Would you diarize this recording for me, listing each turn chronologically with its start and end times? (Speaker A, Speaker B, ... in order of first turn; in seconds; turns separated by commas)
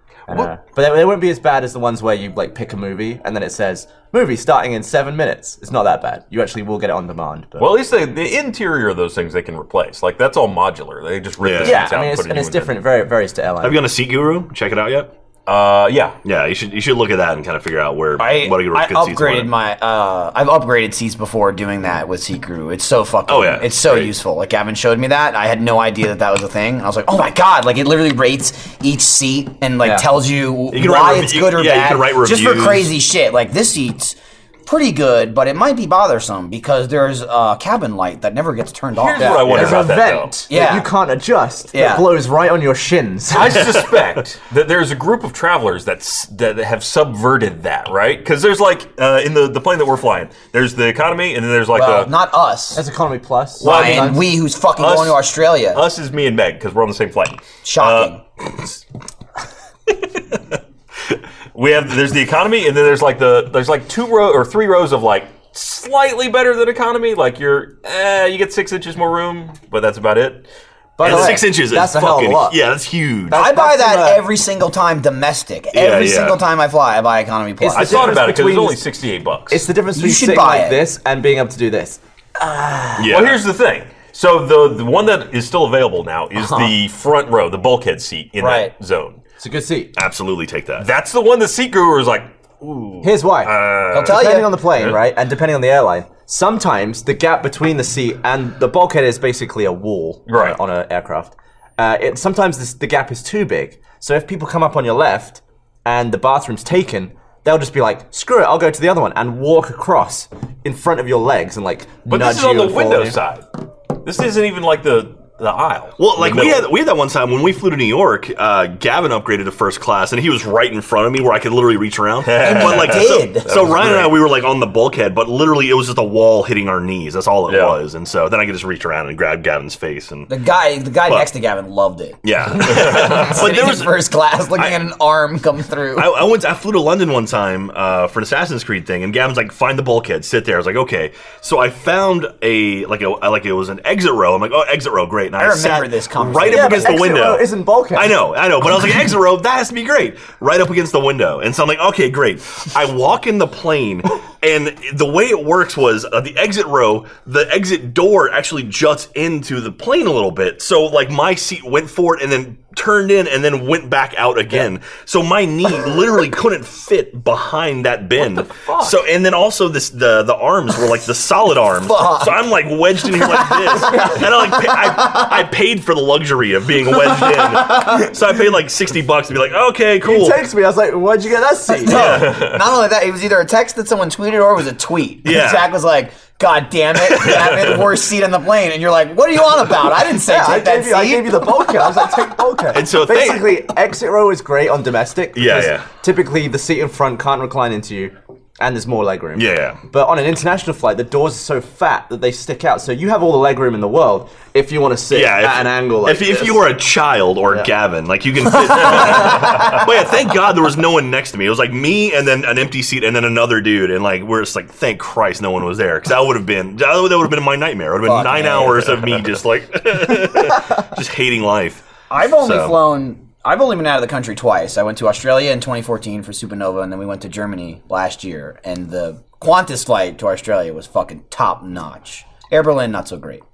Speaker A: 0.3-7.7, Speaker B: 7.6-12.8, Speaker C: 11.4-11.9, Speaker A: 11.6-13.8, Speaker C: 13.6-15.1, Speaker B: 15.5-16.2, Speaker C: 16.2-19.5, Speaker D: 18.2-39.4, Speaker C: 23.3-24.1, Speaker C: 30.7-32.9, Speaker B: 39.0-40.4, Speaker A: 39.2-43.7, Speaker C: 39.5-39.9, Speaker D: 40.5-40.9, Speaker D: 41.7-42.1, Speaker B: 43.3-52.1, Speaker D: 51.7-52.8, Speaker A: 52.7-54.2, Speaker D: 53.6-55.8, Speaker B: 53.6-54.2, Speaker B: 54.8-58.2, Speaker D: 57.6-58.2, Speaker B: 61.5-70.5, Speaker A: 71.0-72.6, Speaker C: 71.0-73.4, Speaker D: 71.0-71.3, Speaker A: 73.3-74.2, Speaker D: 73.3-78.1, Speaker C: 75.7-76.4, Speaker A: 77.6-78.8, Speaker B: 77.7-79.7, Speaker A: 79.5-83.1, Speaker D: 79.9-80.8, Speaker C: 83.0-83.4, Speaker B: 83.1-89.2, Speaker A: 86.4-86.7, Speaker D: 88.4-88.7, Speaker A: 89.4-89.9, Speaker C: 90.0-90.9, Speaker B: 90.8-95.0, Speaker A: 93.0-113.2, Speaker D: 93.9-94.5, Speaker B: 100.3-100.6, Speaker B: 112.1-113.5, Speaker B: 114.0-116.7, Speaker C: 116.0-130.3, Speaker B: 122.2-124.2, Speaker D: 122.4-123.5, Speaker B: 127.5-127.8, Speaker D: 130.3-132.2, Speaker C: 132.2-134.0, Speaker D: 132.8-136.2, Speaker B: 132.8-133.3, Speaker C: 134.5-134.8, Speaker C: 135.9-180.5, Speaker D: 145.4-147.1, Speaker A: 146.4-148.2, Speaker B: 168.2-169.0, Speaker D: 171.8-172.4, Speaker D: 173.4-174.8, Speaker A: 180.0-182.0, Speaker D: 181.8-191.7, Speaker C: 181.9-182.3, Speaker B: 182.0-182.6, Speaker C: 185.2-185.7, Speaker C: 187.0-187.5, Speaker A: 190.1-206.8, Speaker C: 192.7-193.6, Speaker C: 195.3-195.9, Speaker C: 199.3-199.8, Speaker C: 205.1-222.8, Speaker D: 218.0-218.9, Speaker D: 222.1-233.4